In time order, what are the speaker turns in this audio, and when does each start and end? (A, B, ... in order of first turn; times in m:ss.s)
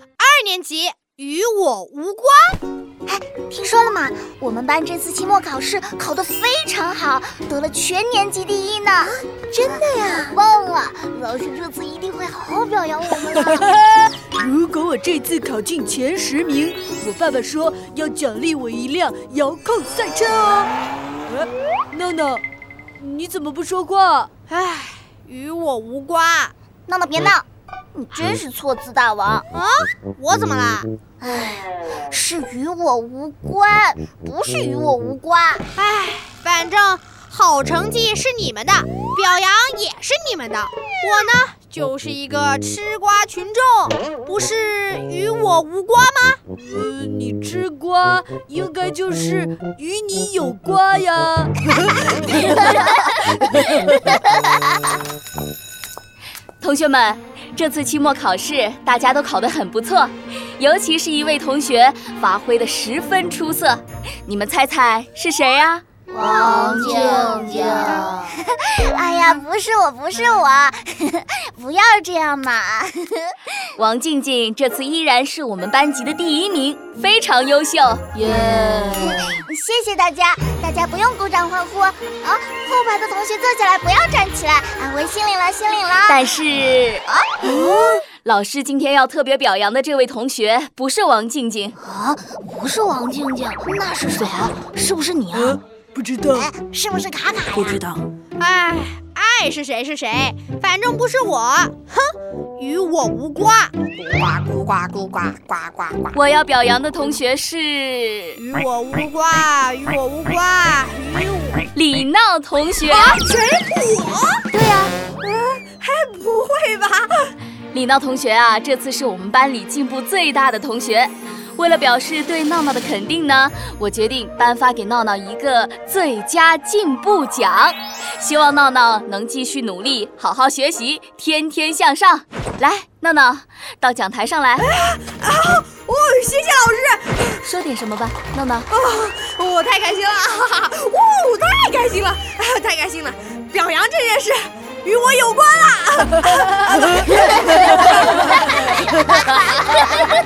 0:00.2-0:02.6 A
0:03.1-0:13.8 B
0:09.6-0:10.2 A
0:13.8-0:20.7 C
0:21.9-0:22.4 C
0:23.0-0:24.4 C
0:24.4-0:26.5 A
0:26.9-0:29.5 B
0:29.5-0:30.9 A
0:31.2-0:35.6 B
0:35.8-0:46.4 A
0:46.6-0:51.8 C
0:52.0-0:52.9 A
0:56.6-1:08.1 D
1:06.1-1:13.4 B
1:13.8-1:19.4 D
1:18.9-1:26.4 B
1:26.0-1:31.8 D
1:27.1-1:27.6 B
1:31.8-1:35.6 B
1:35.3-1:36.5 C
1:36.2-1:37.8 B
1:37.5-1:38.1 C
1:38.4-1:46.1 A
1:46.1-1:48.4 D
1:48.4-1:51.7 A
1:51.7-1:53.2 D
1:52.8-1:57.3 A
1:57.7-2:14.7 D
2:14.6-2:17.4 A
2:17.4-2:18.7 D
2:18.7-2:30.0 A